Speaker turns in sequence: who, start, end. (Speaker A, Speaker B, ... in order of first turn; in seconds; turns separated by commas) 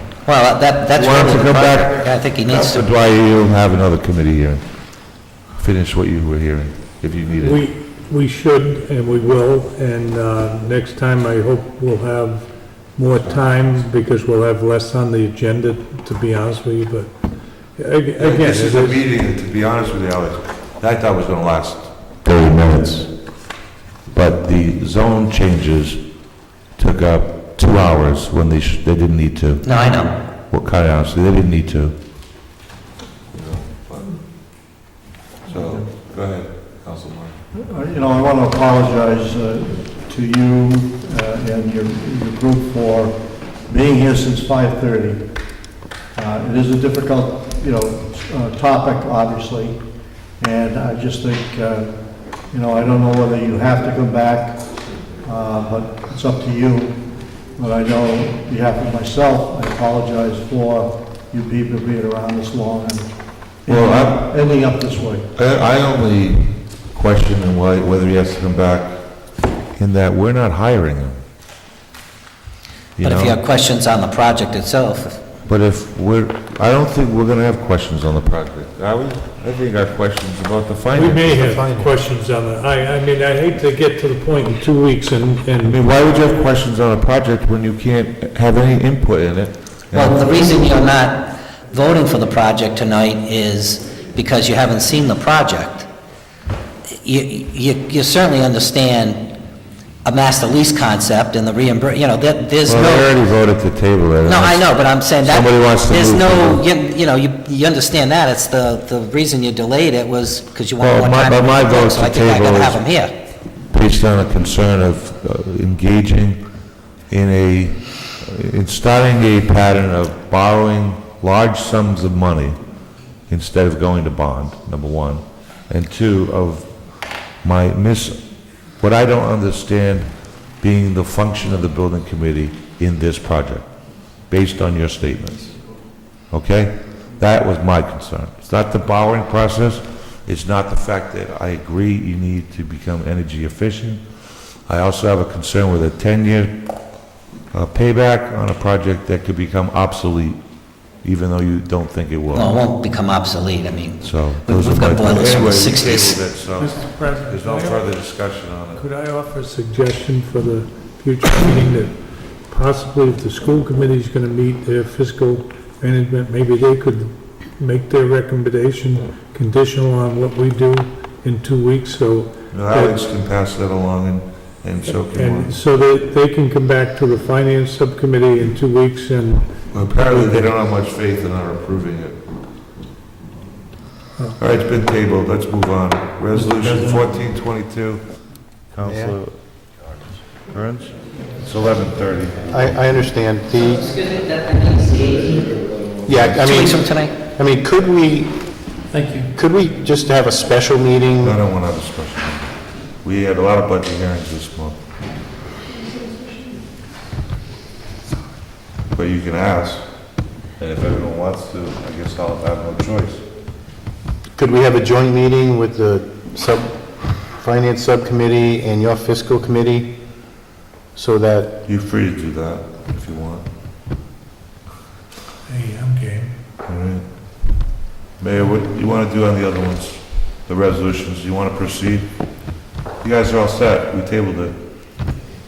Speaker A: 0.2-2.9, Speaker B: 0.9-4.9, Speaker B: 5.5-7.7, Speaker C: 7.4-17.1, Speaker B: 13.2-13.8, Speaker C: 17.8-19.1, Speaker B: 18.2-23.2, Speaker B: 24.1-26.1, Speaker B: 26.7-29.8, Speaker A: 29.6-30.2, Speaker B: 30.4-31.9, Speaker B: 33.3-34.2, Speaker B: 35.5-37.4, Speaker D: 37.5-45.3, Speaker D: 46.1-49.9, Speaker D: 50.4-65.3, Speaker B: 63.7-64.3, Speaker B: 65.3-68.9, Speaker B: 69.8-71.2, Speaker B: 73.0-73.4, Speaker A: 73.0-75.2, Speaker B: 75.5-81.5, Speaker C: 80.9-85.8, Speaker E: 81.4-82.0, Speaker B: 85.6-90.7, Speaker A: 89.9-95.9, Speaker A: 97.0-99.3, Speaker A: 100.0-103.1, Speaker B: 102.7-106.6, Speaker A: 104.2-113.1, Speaker B: 110.8-112.8, Speaker B: 113.7-116.4, Speaker B: 117.1-122.6, Speaker B: 123.3-133.7, Speaker B: 134.3-135.6, Speaker B: 136.3-146.6, Speaker B: 147.5-152.5, Speaker A: 152.3-156.3, Speaker B: 154.0-158.8, Speaker C: 156.5-157.9, Speaker C: 158.8-173.0, Speaker B: 172.5-175.6, Speaker C: 174.9-180.5, Speaker B: 179.7-182.2, Speaker B: 184.4-188.0, Speaker C: 186.6-186.9, Speaker B: 188.7-192.9, Speaker E: 188.8-189.2, Speaker E: 192.5-194.0, Speaker A: 194.2-195.4, Speaker E: 196.1-198.6, Speaker A: 196.4-197.2, Speaker C: 198.9-199.3, Speaker E: 199.3-201.4, Speaker B: 201.2-204.8, Speaker B: 208.9-209.9, Speaker B: 210.6-213.2, Speaker E: 214.4-219.9, Speaker E: 220.9-221.6, Speaker B: 221.7-223.5, Speaker C: 225.5-226.3, Speaker B: 226.7-227.1, Speaker B: 228.2-232.1, Speaker B: 233.0-234.6